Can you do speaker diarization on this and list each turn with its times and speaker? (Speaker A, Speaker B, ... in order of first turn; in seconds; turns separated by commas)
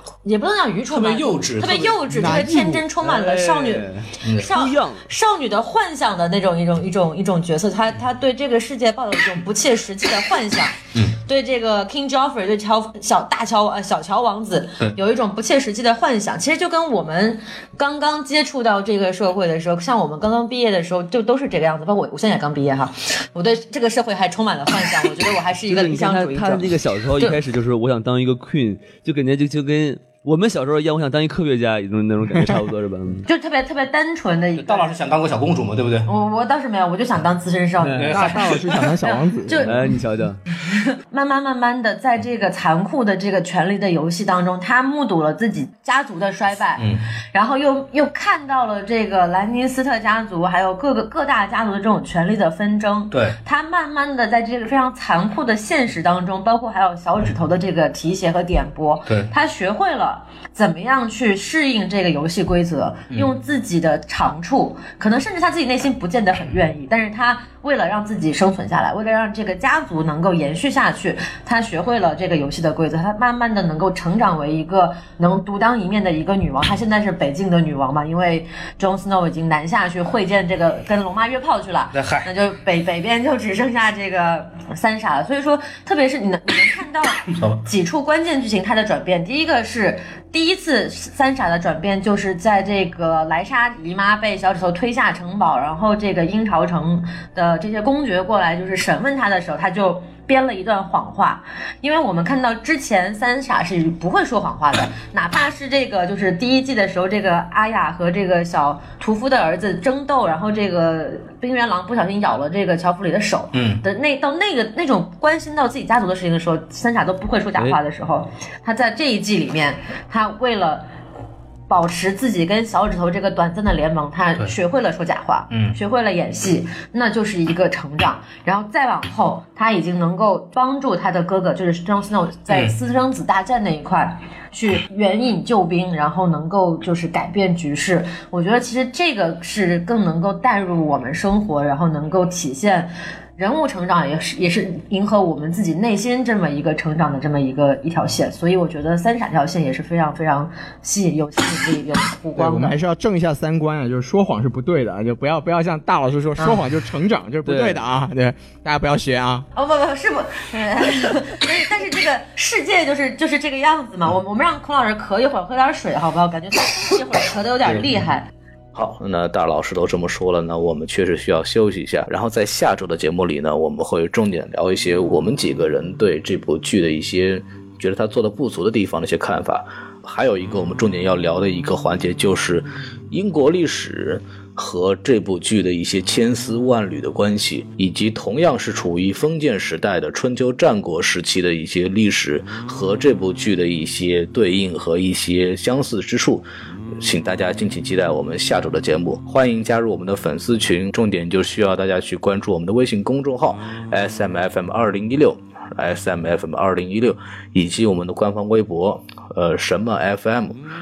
Speaker A: 0.2-27.3, Speaker B: 0.9-2.4, Speaker C: 2.1-2.9, Speaker D: 3.0-5.1, Speaker D: 25.7-33.3, Speaker A: 33.3-35.0, Speaker B: 34.6-36.1, Speaker A: 36.1-39.9, Speaker D: 37.8-38.1, Speaker B: 38.0-38.9, Speaker C: 38.1-39.8, Speaker D: 39.6-40.4, Speaker A: 40.5-120.9, Speaker B: 53.1-53.4, Speaker B: 81.9-82.3, Speaker B: 87.3-87.6, Speaker B: 113.5-113.8, Speaker A: 121.7-152.8, Speaker B: 125.5-125.8, Speaker C: 152.4-159.5, Speaker D: 157.4-157.8, Speaker A: 159.6-168.3, Speaker E: 168.7-196.4, Speaker E: 197.0-210.6